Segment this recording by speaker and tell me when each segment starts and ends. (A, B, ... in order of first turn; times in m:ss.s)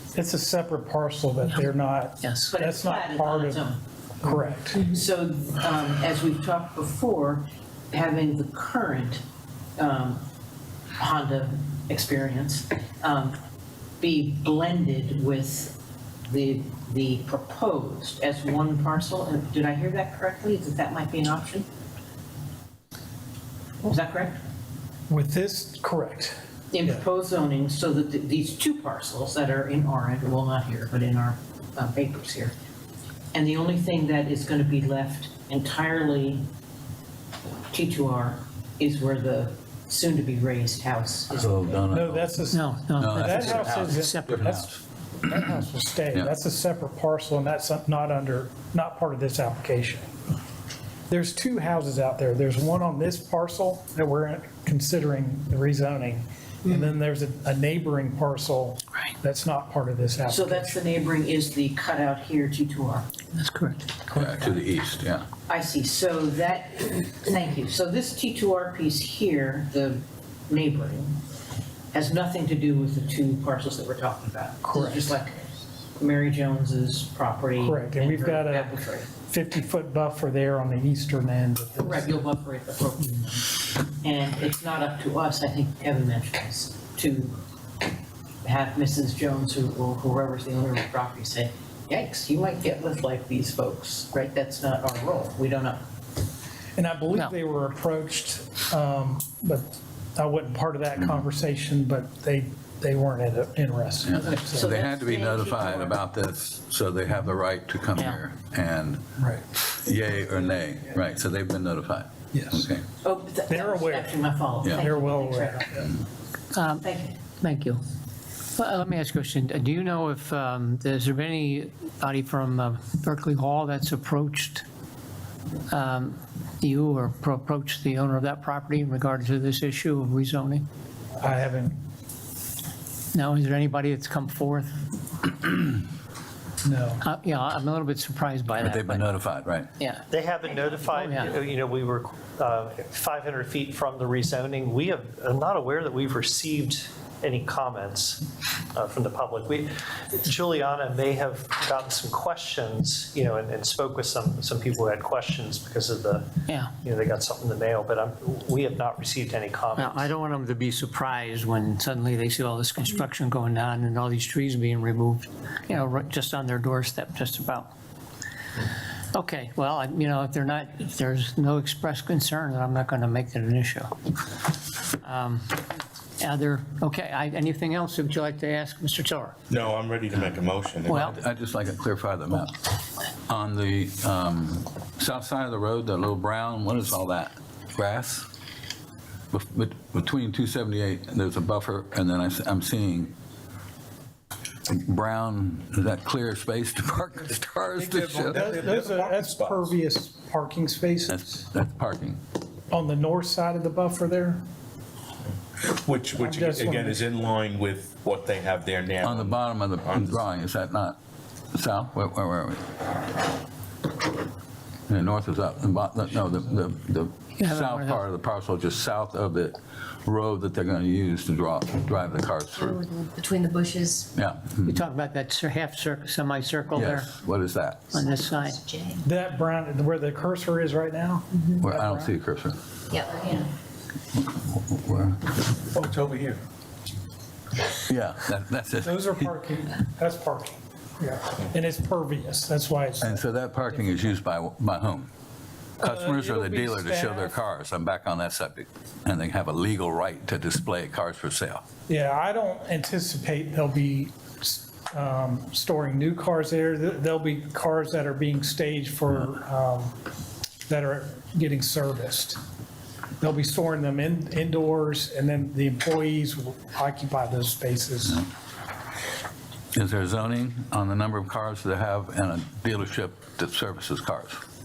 0:00.1-0:03.6 A
0:02.2-0:02.5 B
0:02.4-0:03.8 C
0:04.2-0:04.9 A
0:04.7-0:09.2 C
0:09.8-0:10.2 C
0:11.0-0:13.4 C
0:14.0-0:21.7 C
0:23.8-0:24.4 C
0:25.1-0:26.4 A
0:26.7-0:32.5 C
0:33.3-0:36.4 C
0:37.7-0:41.7 C
0:41.3-0:42.4 D
0:41.9-0:44.7 A
0:42.5-0:44.6 B
0:43.0-0:44.8 D
0:45.2-0:50.1 A
0:51.1-1:00.8 A
1:00.3-1:03.1 C
1:03.3-1:04.2 B
1:04.1-1:05.3 D
1:05.5-1:11.1 C
1:11.9-1:15.4 C
1:14.6-1:15.1 A
1:16.0-1:19.1 C
1:17.6-1:22.2 A
1:21.8-1:27.4 C
1:28.4-1:35.8 C
1:36.8-1:44.7 A
1:41.0-1:41.3 D
1:44.0-1:49.0 D
1:44.1-1:46.0 C
1:49.2-1:49.4 A
1:49.7-1:52.8 D
1:52.3-1:52.7 A
1:53.0-1:55.9 C
1:53.5-1:55.9 A
1:56.5-1:56.8 B
1:56.8-1:57.2 C
1:57.4-1:57.8 B
1:58.6-2:04.6 B
2:05.7-2:10.6 B
2:11.2-2:11.8 A
2:13.1-2:14.7 B
2:16.6-2:17.0 A
2:17.0-2:19.1 B
2:18.6-2:19.7 D
2:19.8-2:21.4 B
2:20.1-2:22.0 A
2:20.5-2:28.2 E
2:28.7-2:36.3 E
2:36.5-2:36.7 B
2:36.8-2:40.0 E
2:39.7-2:47.7 B
2:49.1-2:53.9 B
2:55.0-2:55.7 B
2:56.2-2:59.4 B
2:59.5-3:01.1 F
3:00.8-3:01.2 B
3:00.9-3:02.6 D
3:03.3-3:08.3 D
3:09.3-3:13.1 D
3:14.7-3:18.5 D
3:17.8-3:21.2 A
3:17.8-3:19.7 F
3:21.1-3:22.2 D
3:22.7-3:24.4 A
3:25.6-3:30.2 F
3:26.2-3:27.0 A
3:29.0-3:31.0 D
3:31.5-3:32.8 D
3:34.9-3:42.8 D
3:37.4-3:38.1 B
3:42.5-3:44.1 G
3:44.1-3:44.8 D
3:44.7-3:47.1 B
3:46.7-3:48.0 D
3:47.9-3:48.6 B
3:48.3-3:49.0 G
3:49.0-3:52.1 A
3:51.3-3:51.6 G
3:51.6-3:52.6 D
3:52.9-3:53.5 G
3:54.1-3:55.2 D
3:55.7-3:56.4 F
3:57.8-3:59.3 D
3:58.8-4:03.2 A
4:03.0-4:05.1 D
4:05.8-4:11.6 D
4:05.8-4:07.4 A
4:11.9-4:20.0 A
4:20.7-4:22.4 A
4:23.2-4:28.2 A
4:29.7-4:34.4 D